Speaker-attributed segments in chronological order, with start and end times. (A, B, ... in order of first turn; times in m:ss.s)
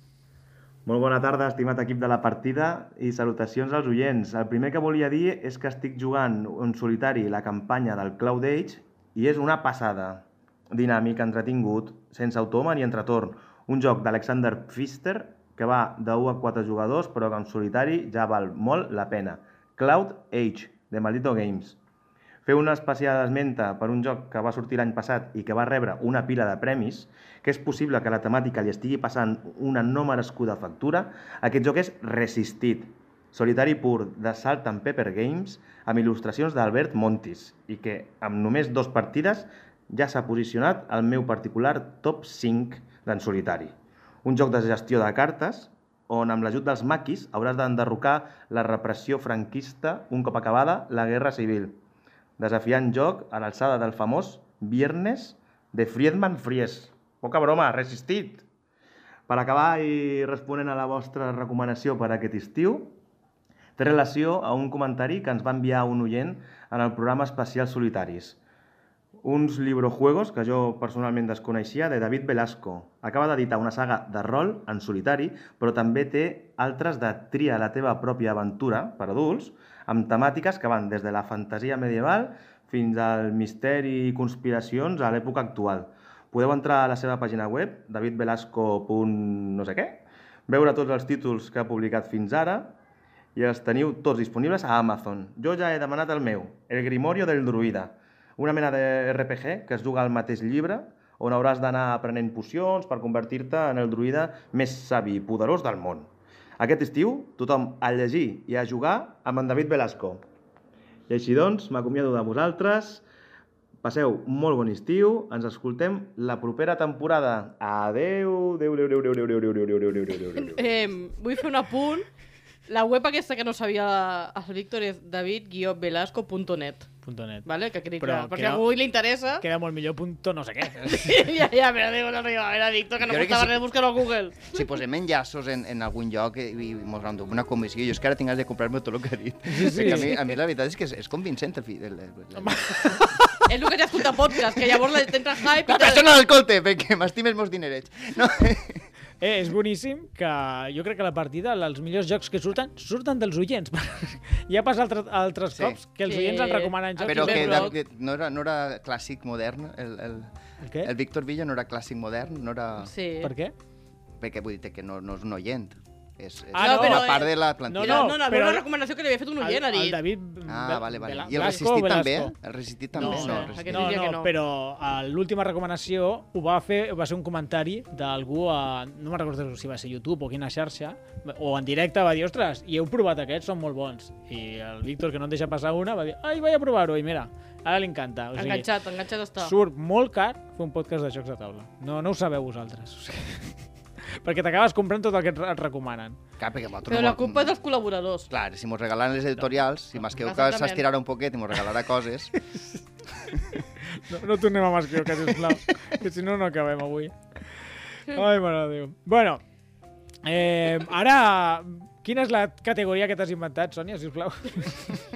0:00.9-0:21.8 A
0:22.4-0:51.8 A
0:52.4-0:58.4 A
0:59.3-1:02.9 A
1:03.8-1:08.4 A
1:09.2-1:32.8 A
1:33.4-1:46.1 A
1:46.6-1:50.2 A
1:51.1-1:53.0 A
1:53.8-2:00.7 A
2:00.4-2:02.1 B
2:02.7-2:06.9 B
2:07.0-2:07.4 C
2:07.5-2:09.4 B
2:08.0-2:08.6 C
2:09.4-2:11.3 C
2:10.8-2:14.6 B
2:13.0-2:13.6 D
2:14.5-2:24.9 D
2:19.5-2:20.1 C
2:22.4-2:23.1 C
2:23.5-2:26.1 B
2:25.4-2:28.8 D
2:29.2-2:37.7 C
2:35.5-2:35.8 D
2:36.0-2:37.8 B
2:37.0-2:40.3 D
2:40.6-2:40.9 C
2:40.8-2:42.9 D
2:42.8-2:43.3 B
2:43.2-2:43.5 C
2:44.2-2:48.2 D
2:46.5-2:47.2 C
2:46.6-2:50.0 B
2:47.7-2:48.6 C
2:49.4-2:52.3 C
2:50.5-2:54.0 D
2:52.9-3:08.7 C
2:53.0-2:54.3 B
3:08.4-3:09.5 B
3:09.4-3:13.6 C
3:14.2-3:16.2 C
3:16.4-3:17.5 D
3:16.9-3:18.3 B
3:18.3-3:22.3 D
3:20.2-3:20.9 B
3:23.9-3:27.2 C
3:27.9-3:29.4 C
3:30.2-3:35.0 C